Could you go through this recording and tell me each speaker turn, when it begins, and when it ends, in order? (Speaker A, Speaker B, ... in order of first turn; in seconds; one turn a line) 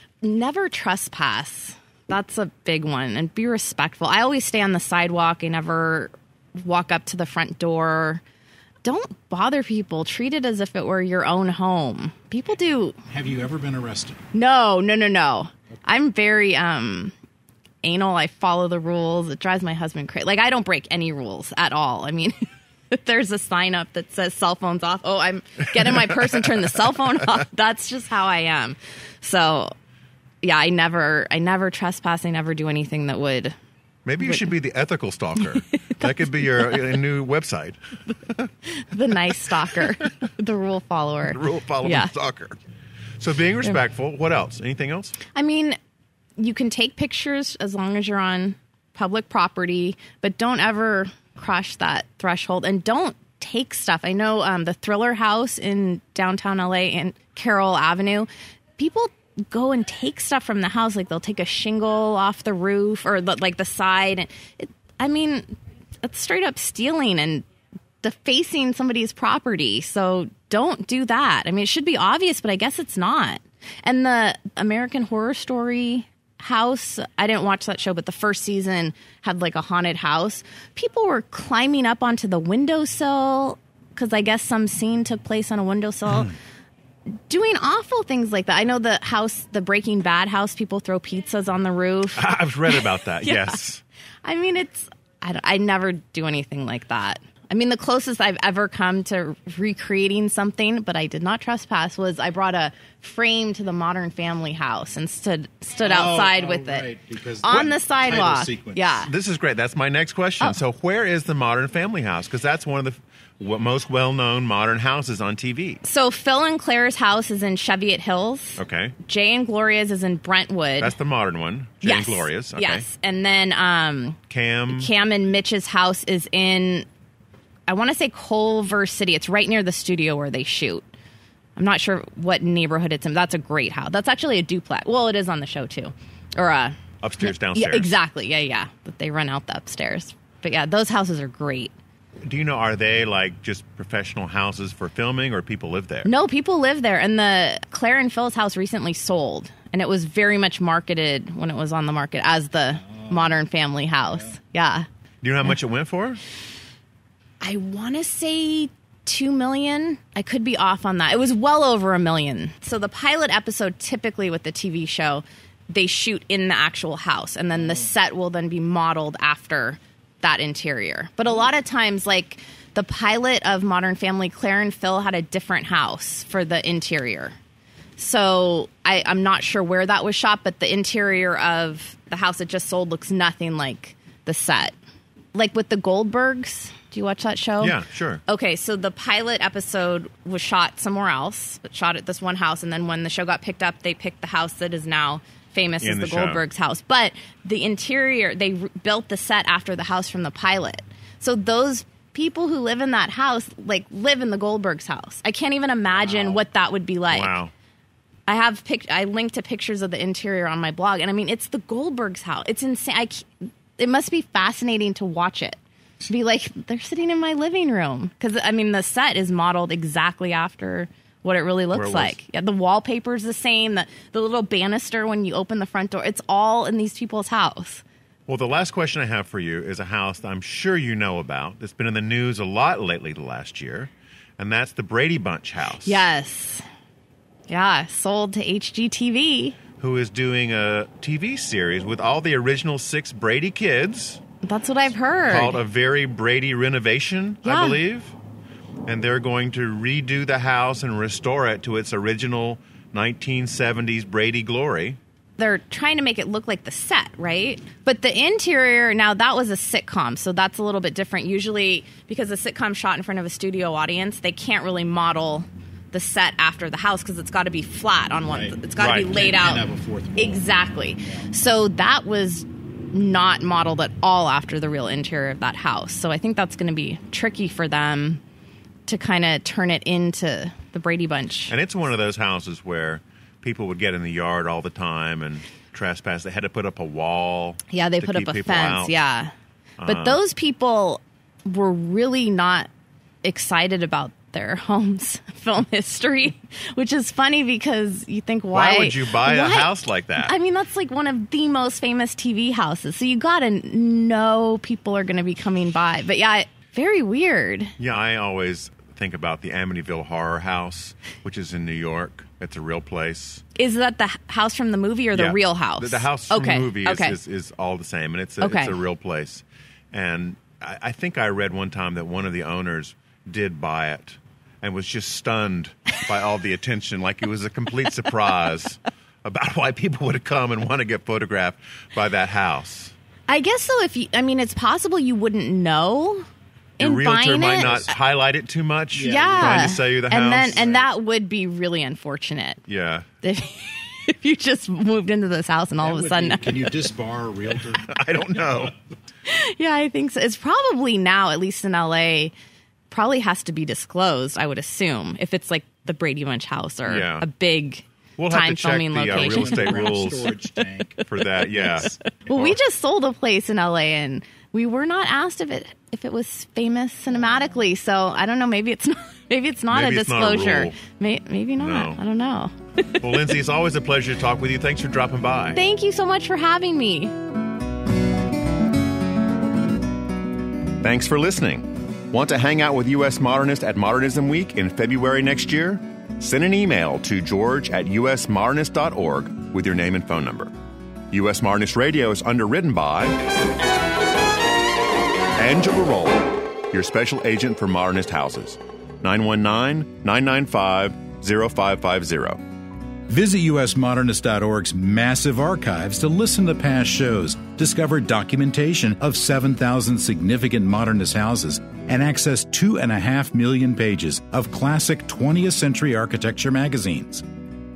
Speaker A: 0.2-8.2
Speaker A: 8.8-13.0
Speaker B: 13.1-14.2
Speaker A: 14.3-17.1
Speaker A: 17.8-22.4
Speaker A: 22.9-29.7
Speaker A: 30.4-33.5
Speaker C: 34.0-37.8
Speaker A: 38.6-42.1
Speaker C: 41.3-42.6
Speaker C: 43.2-45.2
Speaker A: 45.3-45.8
Speaker A: 46.4-67.4
Speaker A: 68.0-86.3
Speaker A: 87.3-93.6
Speaker C: 92.1-93.8
Speaker A: 94.2-109.1
Speaker B: 105.8-108.9
Speaker C: 107.5-107.7
Speaker C: 109.0-115.8
Speaker A: 115.8-120.9
Speaker C: 118.6-118.9
Speaker C: 120.8-122.8
Speaker A: 121.8-126.9
Speaker C: 124.3-124.9
Speaker A: 127.7-130.8
Speaker A: 131.6-141.7
Speaker C: 137.0-137.9
Speaker C: 142.2-146.1
Speaker A: 146.0-154.8
Speaker C: 155.2-156.2
Speaker A: 157.4-177.3
Speaker A: 178.0-184.7
Speaker A: 185.3-207.4
Speaker C: 187.6-188.2
Speaker C: 195.8-196.4
Speaker C: 207.1-207.5
Speaker A: 208.3-227.8
Speaker C: 221.7-222.2
Speaker C: 228.3-236.0
Speaker A: 235.8-236.6
Speaker A: 237.5-239.6
Speaker C: 239.8-244.2
Speaker A: 244.4-245.6
Speaker C: 245.3-248.1
Speaker A: 247.4-247.8
Speaker C: 248.8-255.0
Speaker A: 255.4-278.2
Speaker C: 268.8-269.1
Speaker B: 269.1-270.3
Speaker A: 278.9-281.5
Speaker C: 281.5-288.9
Speaker A: 287.7-289.3
Speaker C: 289.8-290.2
Speaker A: 289.8-292.7
Speaker A: 293.2-307.7
Speaker C: 298.5-300.3
Speaker C: 307.8-313.4
Speaker A: 313.6-317.2
Speaker C: 315.1-332.9
Speaker A: 318.4-318.8
Speaker A: 333.3-336.3
Speaker A: 336.8-337.9
Speaker C: 336.8-340.9
Speaker A: 338.9-342.6
Speaker C: 342.7-343.1
Speaker A: 343.2-346.8
Speaker B: 345.8-347.9
Speaker C: 347.7-348.8
Speaker A: 349.2-352.3
Speaker A: 352.9-372.5
Speaker C: 356.9-357.2
Speaker C: 358.2-360.4
Speaker B: 359.1-361.0
Speaker C: 361.0-362.6
Speaker C: 369.7-370.8
Speaker C: 371.6-372.0
Speaker C: 373.0-375.6
Speaker A: 375.5-377.1
Speaker C: 380.8-390.5
Speaker C: 391.1-393.2
Speaker C: 395.4-402.4
Speaker B: 403.1-417.2